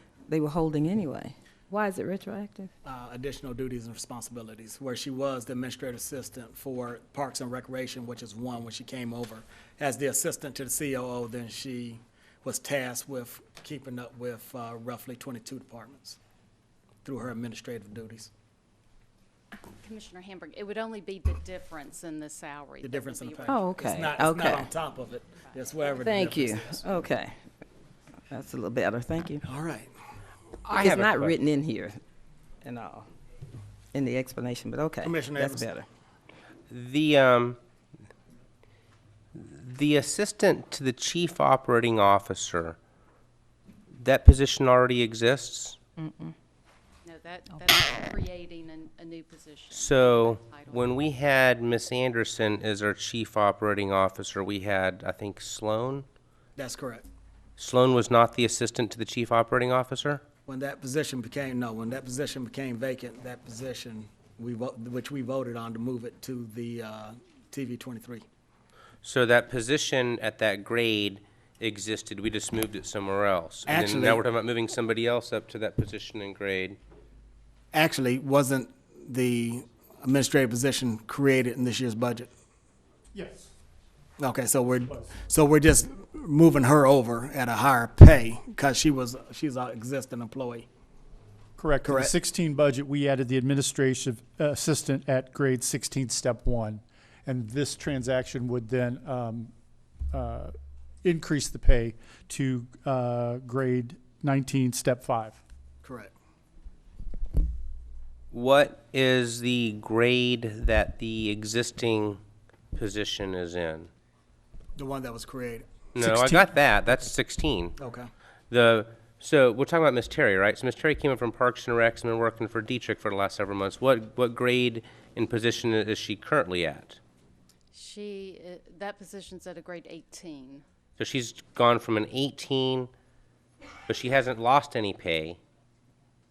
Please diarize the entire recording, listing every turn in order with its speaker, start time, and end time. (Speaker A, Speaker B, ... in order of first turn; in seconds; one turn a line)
Speaker A: 0.3-1.4
Speaker A: 1.9-2.7
Speaker B: 2.8-16.2
Speaker B: 17.0-18.3
Speaker C: 19.8-23.8
Speaker B: 22.8-26.8
Speaker A: 23.4-24.7
Speaker C: 25.4-25.9
Speaker A: 25.9-27.4
Speaker A: 28.3-29.4
Speaker B: 29.4-29.9
Speaker D: 30.7-31.4
Speaker A: 30.7-32.0
Speaker A: 32.6-33.1
Speaker A: 33.9-35.9
Speaker B: 35.0-35.7
Speaker D: 36.7-37.6
Speaker D: 39.3-42.8
Speaker D: 43.9-45.8
Speaker C: 47.0-51.0
Speaker D: 49.7-56.0
Speaker B: 56.5-57.0
Speaker D: 57.6-60.2
Speaker B: 60.5-68.2
Speaker D: 69.0-76.8
Speaker B: 73.7-74.2
Speaker B: 77.7-82.3
Speaker E: 83.1-83.5
Speaker B: 84.2-90.7
Speaker E: 91.6-99.5
Speaker B: 91.8-92.1
Speaker E: 100.1-105.4
Speaker B: 105.8-106.1
Speaker D: 108.3-112.2
Speaker D: 112.7-113.9
Speaker B: 114.8-115.7
Speaker D: 115.9-117.7
Speaker E: 116.0-116.5
Speaker B: 117.8-118.1
Speaker D: 118.5-127.0
Speaker C: 127.7-130.6
Speaker D: 131.0-132.9
Speaker D: 133.9-135.4